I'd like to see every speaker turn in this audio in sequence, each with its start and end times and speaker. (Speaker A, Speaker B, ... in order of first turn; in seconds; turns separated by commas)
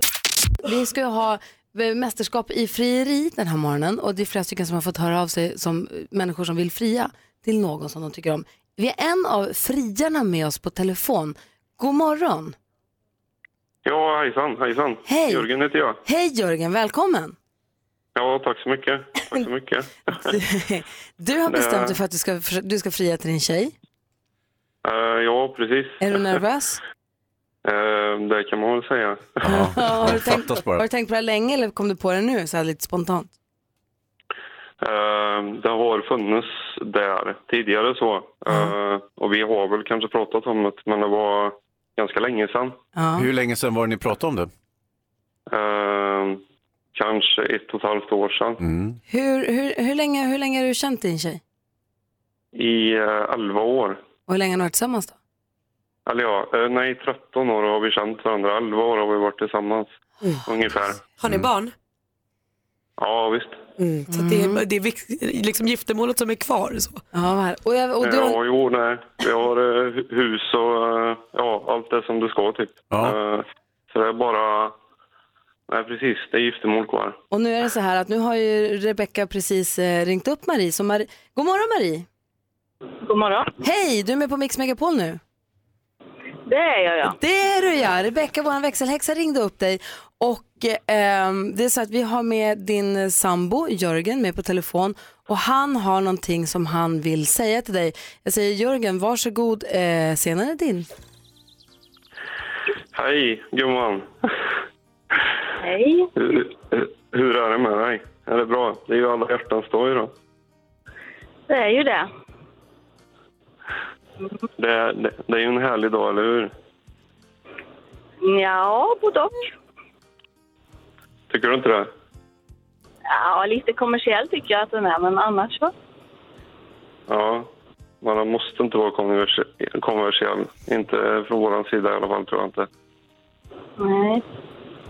Speaker A: 0.6-12.6, Speaker B: 13.8-16.0, Speaker A: 15.1-15.5, Speaker A: 16.0-17.4, Speaker B: 18.2-19.9, Speaker A: 20.2-23.7, Speaker B: 21.5-22.0, Speaker B: 24.9-26.0, Speaker A: 26.0-26.8, Speaker B: 27.6-29.4, Speaker C: 29.4-30.9, Speaker A: 29.5-33.3, Speaker B: 34.8-42.8, Speaker A: 43.0-43.3, Speaker C: 43.2-44.5, Speaker B: 45.5-46.4, Speaker B: 47.0-48.6, Speaker C: 48.6-49.0, Speaker A: 49.1-51.4, Speaker B: 52.5-54.0, Speaker A: 54.3-55.1, Speaker B: 56.1-60.0, Speaker B: 60.5-61.0, Speaker D: 61.2-61.7, Speaker B: 63.0-63.6, Speaker D: 63.8-67.0, Speaker A: 64.1-64.6, Speaker A: 67.1-68.4, Speaker B: 68.0-74.8, Speaker C: 72.9-73.2, Speaker B: 75.7-77.2, Speaker A: 77.3-82.1, Speaker E: 83.0-83.5, Speaker A: 83.6-85.2, Speaker E: 86.5-87.2, Speaker A: 87.0-100.9, Speaker B: 102.9-104.2, Speaker E: 105.6-106.1, Speaker B: 106.2-110.1, Speaker E: 111.5-112.1, Speaker B: 114.6-116.5, Speaker E: 118.2-119.4, Speaker B: 121.3-121.9, Speaker E: 123.1-125.7, Speaker B: 127.1-127.5, Speaker B: 128.0-132.7, Speaker E: 133.8-134.2